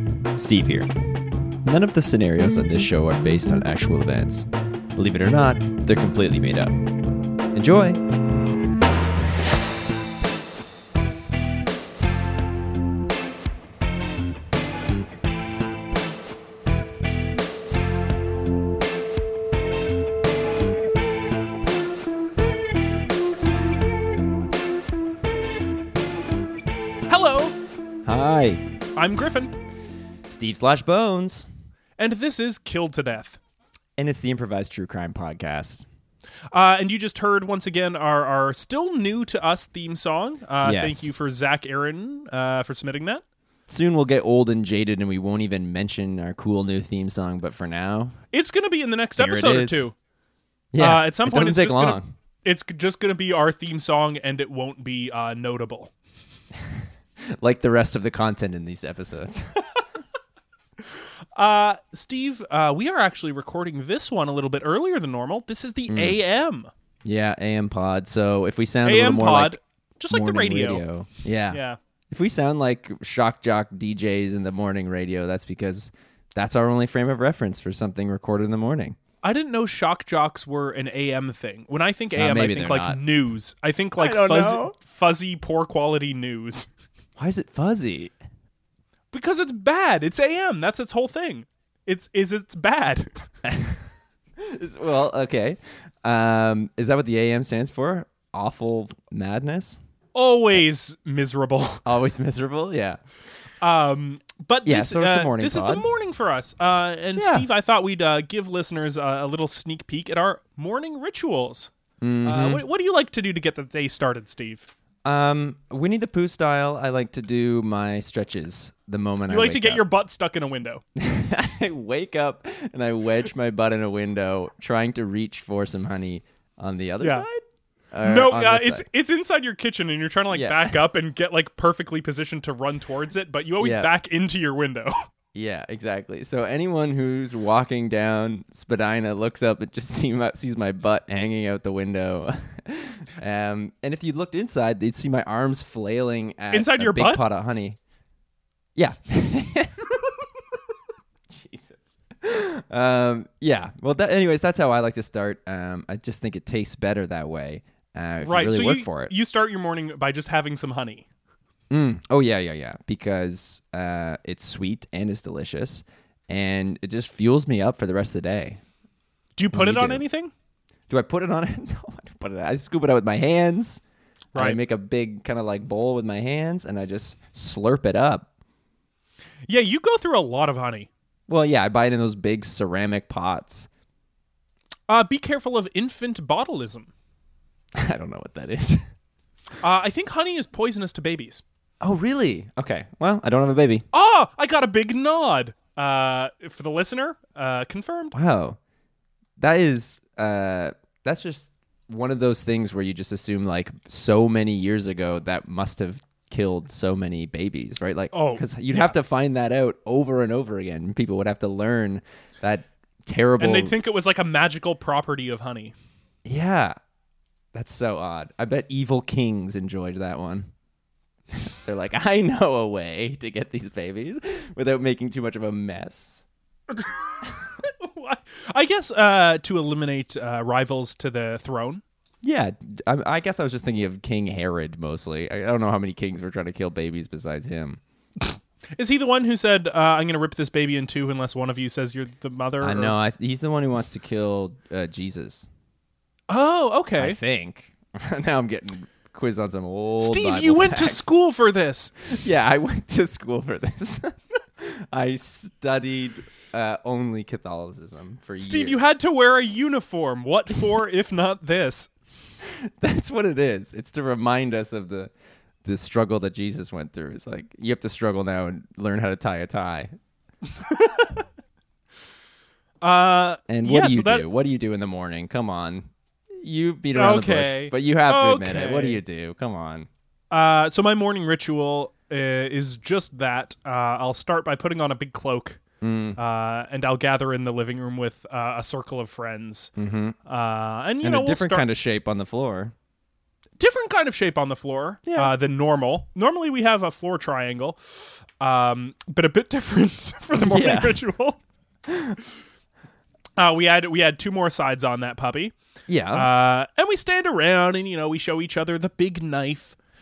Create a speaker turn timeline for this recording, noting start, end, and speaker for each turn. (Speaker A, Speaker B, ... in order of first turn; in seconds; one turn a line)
Speaker A: 0.3-0.9
Speaker A: 1.6-6.7
Speaker A: 7.5-8.0
Speaker B: 27.1-27.5
Speaker A: 28.1-28.6
Speaker B: 28.9-29.5
Speaker A: 30.3-31.5
Speaker B: 32.0-33.4
Speaker A: 34.0-35.9
Speaker B: 36.5-43.2
Speaker A: 40.6-41.1
Speaker A: 43.7-48.2
Speaker B: 48.3-49.9
Speaker A: 49.2-49.9
Speaker A: 50.7-52.1
Speaker B: 50.8-55.9
Speaker A: 57.3-59.5
Speaker B: 61.4-66.7
Speaker A: 65.9-66.2
Speaker A: 67.0-69.6
Speaker B: 68.8-70.8
Speaker A: 70.1-79.0
Speaker B: 71.5-71.8
Speaker B: 79.2-86.7
Speaker A: 82.1-83.0
Speaker A: 84.0-84.7
Speaker A: 87.2-88.1
Speaker B: 89.1-93.1
Speaker A: 93.4-93.8
Speaker A: 94.4-99.8
Speaker B: 100.1-101.8
Speaker A: 101.8-103.0
Speaker B: 103.6-111.7
Speaker A: 104.6-105.8
Speaker A: 107.2-107.5
Speaker A: 112.0-112.6
Speaker B: 112.2-114.7
Speaker A: 115.0-119.8
Speaker B: 119.3-120.8
Speaker A: 121.0-128.8
Speaker B: 127.0-127.2
Speaker B: 128.0-134.9
Speaker A: 130.3-130.8
Speaker A: 133.6-133.9
Speaker A: 135.3-147.8
Speaker B: 146.5-147.2
Speaker A: 148.8-149.9
Speaker A: 151.3-159.1
Speaker B: 158.2-161.1
Speaker A: 161.7-168.6
Speaker B: 169.4-170.3
Speaker A: 169.5-170.0
Speaker A: 170.9-173.8
Speaker A: 174.3-178.3
Speaker B: 179.5-180.9
Speaker A: 181.3-183.7
Speaker B: 184.9-186.9
Speaker A: 187.8-188.8
Speaker B: 189.6-191.4
Speaker A: 191.8-193.8
Speaker B: 193.9-198.1
Speaker A: 198.1-198.6
Speaker A: 199.4-213.7
Speaker B: 208.1-208.9
Speaker B: 213.4-215.7
Speaker A: 216.2-216.8
Speaker A: 217.5-220.5
Speaker A: 221.3-226.2
Speaker B: 227.6-231.8
Speaker A: 232.2-237.8
Speaker B: 238.3-242.9
Speaker A: 242.6-245.5
Speaker B: 246.3-247.2
Speaker A: 247.0-251.1
Speaker B: 250.0-251.9
Speaker A: 252.1-258.8
Speaker B: 258.4-261.9
Speaker A: 262.6-265.1
Speaker A: 265.6-269.9
Speaker B: 270.6-271.2
Speaker B: 272.8-274.3
Speaker A: 273.5-279.9
Speaker B: 276.9-279.0
Speaker B: 280.3-285.6
Speaker A: 285.8-286.2
Speaker B: 286.2-289.7
Speaker A: 289.8-290.1
Speaker B: 290.3-291.6
Speaker A: 291.0-292.7
Speaker B: 293.6-301.4
Speaker A: 295.1-295.3
Speaker A: 300.4-301.0
Speaker A: 301.9-302.1
Speaker B: 303.4-305.5
Speaker A: 305.9-306.3
Speaker B: 306.1-309.8